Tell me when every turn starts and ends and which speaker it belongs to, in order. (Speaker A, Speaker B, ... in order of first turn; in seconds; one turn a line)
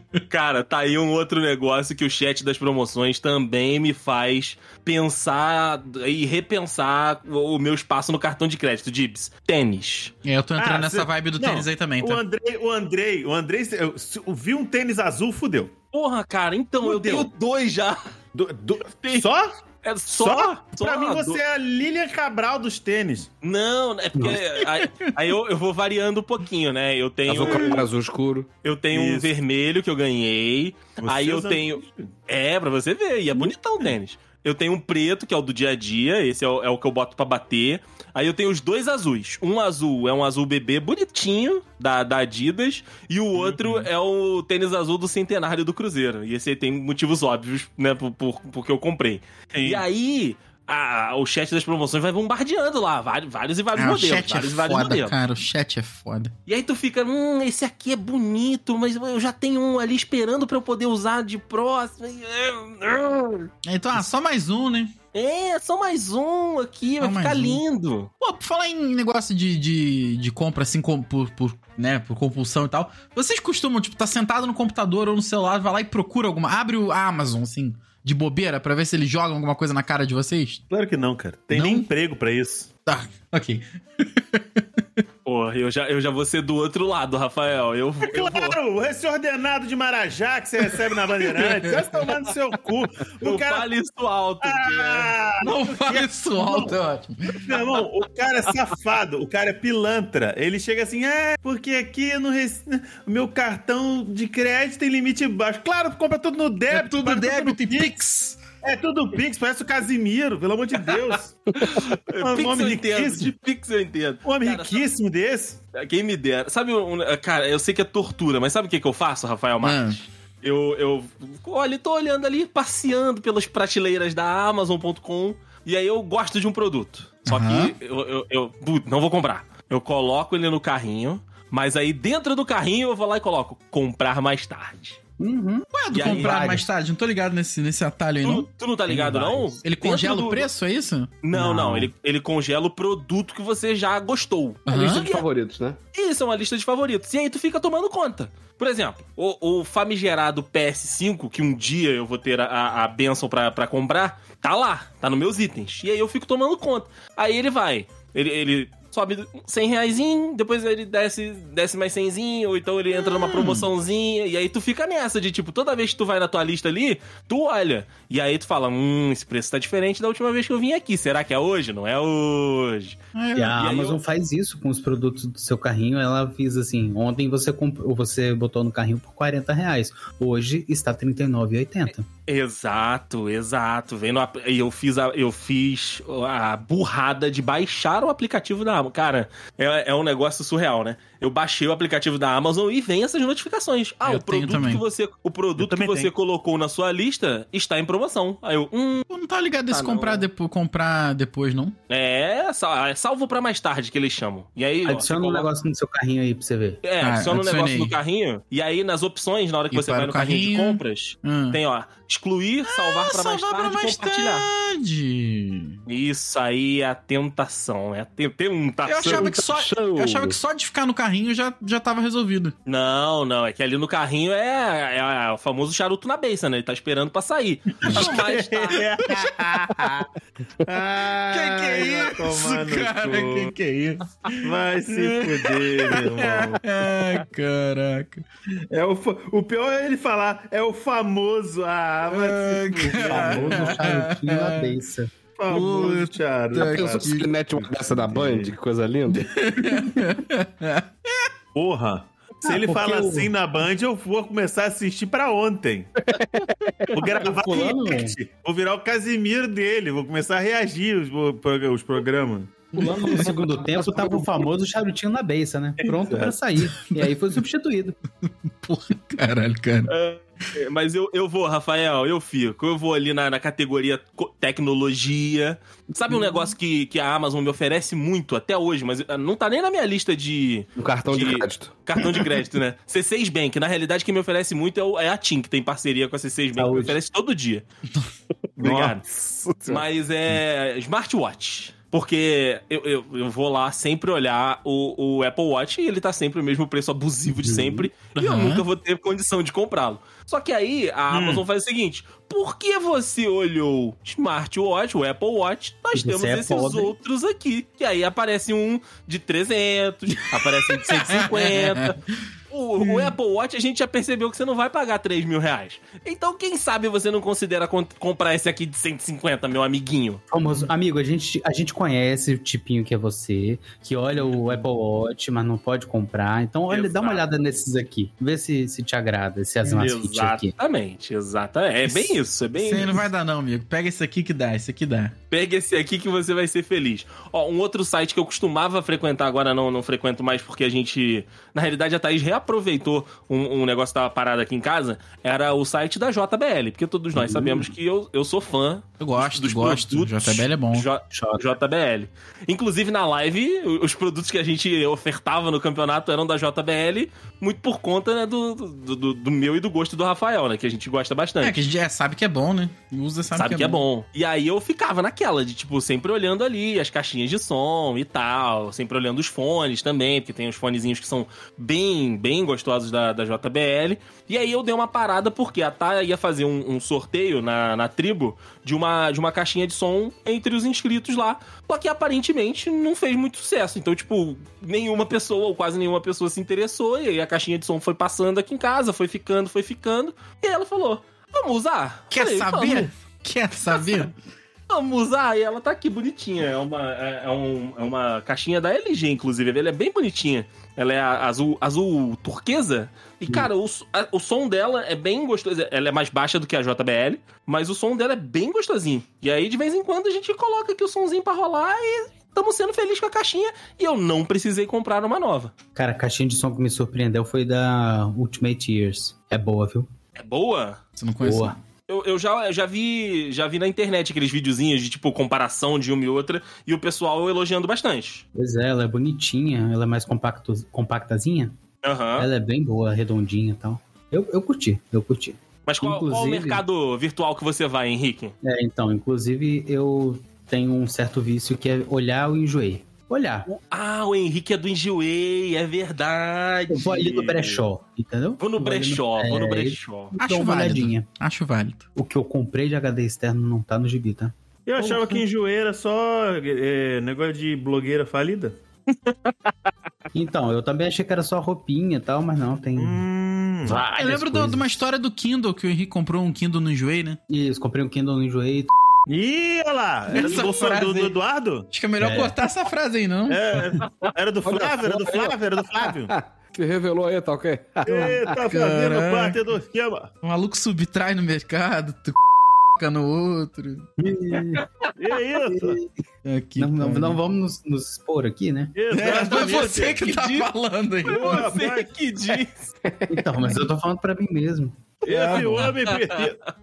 Speaker A: 0.3-10.1
Speaker B: 10.2-12.2
Speaker C: 10.6-15.7
Speaker A: 15.9-18.1
Speaker C: 16.8-17.3
Speaker C: 18.3-19.5
Speaker A: 19.8-21.4
Speaker C: 20.1-23.3
Speaker A: 23.4-27.9
Speaker D: 24.1-24.4
Speaker B: 24.8-25.1
Speaker E: 27.3-28.5
Speaker A: 28.6-55.1
Speaker C: 28.9-29.3
Speaker C: 31.0-32.1
Speaker C: 33.4-33.9
Speaker C: 43.4-43.9
Speaker C: 49.5-49.8
Speaker B: 53.8-56.3
Speaker A: 56.5-63.5
Speaker B: 63.6-64.9
Speaker A: 65.1-68.1
Speaker B: 67.0-67.6
Speaker B: 68.2-80.6
Speaker C: 80.7-82.7
Speaker B: 81.5-81.9
Speaker B: 82.9-84.6
Speaker A: 85.3-88.6
Speaker C: 88.0-93.7
Speaker B: 91.5-92.1
Speaker A: 93.2-95.1
Speaker C: 94.4-96.8
Speaker B: 95.4-97.4
Speaker C: 97.4-108.0
Speaker B: 106.7-108.4
Speaker C: 108.6-111.5
Speaker A: 111.7-114.9
Speaker C: 112.2-113.3
Speaker C: 114.2-115.6
Speaker A: 115.8-135.0
Speaker B: 119.6-120.0
Speaker B: 127.3-127.7
Speaker D: 135.2-136.7
Speaker B: 135.7-138.5
Speaker A: 135.9-136.4
Speaker A: 138.2-140.5
Speaker D: 138.9-139.5
Speaker B: 139.6-141.1
Speaker A: 141.2-145.2
Speaker D: 141.3-141.9
Speaker B: 144.7-145.1
Speaker E: 144.7-145.8
Speaker A: 145.9-173.0
Speaker B: 163.0-163.7
Speaker B: 173.2-173.6
Speaker D: 173.4-182.1
Speaker A: 173.6-174.0
Speaker A: 182.3-199.1
Speaker B: 194.1-194.8
Speaker C: 195.6-196.1
Speaker B: 199.1-201.8
Speaker A: 199.7-200.3
Speaker A: 201.9-205.5
Speaker D: 204.9-206.8
Speaker A: 206.8-214.5
Speaker B: 207.0-208.0
Speaker B: 209.7-211.6
Speaker B: 212.7-215.8
Speaker A: 215.9-219.5
Speaker B: 218.9-222.5
Speaker E: 219.1-220.4
Speaker A: 222.7-228.8
Speaker C: 227.8-230.1
Speaker C: 230.6-233.5
Speaker B: 231.3-238.2
Speaker C: 234.4-236.9
Speaker C: 238.7-243.8
Speaker B: 242.1-244.7
Speaker D: 243.0-245.1
Speaker C: 245.4-248.6
Speaker B: 245.5-247.3
Speaker E: 246.6-249.4
Speaker B: 249.1-251.3
Speaker C: 251.5-255.9
Speaker D: 252.4-253.3
Speaker E: 256.2-256.9
Speaker C: 256.9-262.7
Speaker D: 257.2-258.2
Speaker D: 262.7-268.0
Speaker B: 262.9-263.3
Speaker C: 265.8-266.4
Speaker B: 268.3-269.9
Speaker A: 269.9-287.6
Speaker E: 280.8-281.8
Speaker D: 286.6-287.0
Speaker C: 288.6-289.0
Speaker A: 288.6-312.0
Speaker D: 297.3-297.9
Speaker B: 298.2-298.6
Speaker C: 301.1-301.4
Speaker D: 305.9-306.9
Speaker B: 311.1-312.2
Speaker A: 312.5-320.2
Speaker B: 312.8-313.1
Speaker D: 320.3-330.5
Speaker A: 326.7-327.2
Speaker A: 329.6-333.1
Speaker B: 331.9-335.1
Speaker A: 335.3-361.6
Speaker D: 347.1-347.7
Speaker B: 349.0-350.9
Speaker D: 351.1-351.5
Speaker B: 361.4-363.8
Speaker A: 363.3-392.9
Speaker B: 392.1-394.1
Speaker A: 393.7-394.1
Speaker A: 394.7-415.5
Speaker D: 415.8-419.9
Speaker A: 420.2-420.8
Speaker B: 421.0-421.6
Speaker D: 421.2-421.6
Speaker A: 421.9-428.2
Speaker D: 428.4-431.6
Speaker A: 431.8-432.3
Speaker D: 432.2-436.6
Speaker A: 435.7-438.4
Speaker D: 438.4-443.5
Speaker A: 443.5-447.6
Speaker D: 446.7-451.1
Speaker A: 448.4-450.2
Speaker B: 450.2-451.9
Speaker D: 452.0-455.2
Speaker C: 454.7-458.6
Speaker D: 460.1-463.1
Speaker C: 462.8-463.8
Speaker D: 463.6-464.8
Speaker B: 463.7-467.2
Speaker D: 467.3-468.7
Speaker C: 469.1-471.7
Speaker B: 470.1-471.1
Speaker B: 471.7-473.4
Speaker D: 472.0-472.4
Speaker C: 473.3-476.1
Speaker E: 474.4-478.4
Speaker C: 477.9-480.1
Speaker B: 478.4-479.4
Speaker B: 480.2-482.2
Speaker B: 482.8-483.9
Speaker D: 484.0-484.7
Speaker C: 485.0-485.8
Speaker D: 485.5-485.9
Speaker B: 486.2-487.2
Speaker D: 486.6-488.8
Speaker C: 488.7-490.1
Speaker B: 488.9-491.5
Speaker A: 489.1-490.5
Speaker C: 491.1-491.9
Speaker A: 491.1-492.7
Speaker E: 492.9-493.4
Speaker D: 493.1-494.9
Speaker C: 495.1-496.4
Speaker B: 495.1-495.7
Speaker A: 495.1-496.3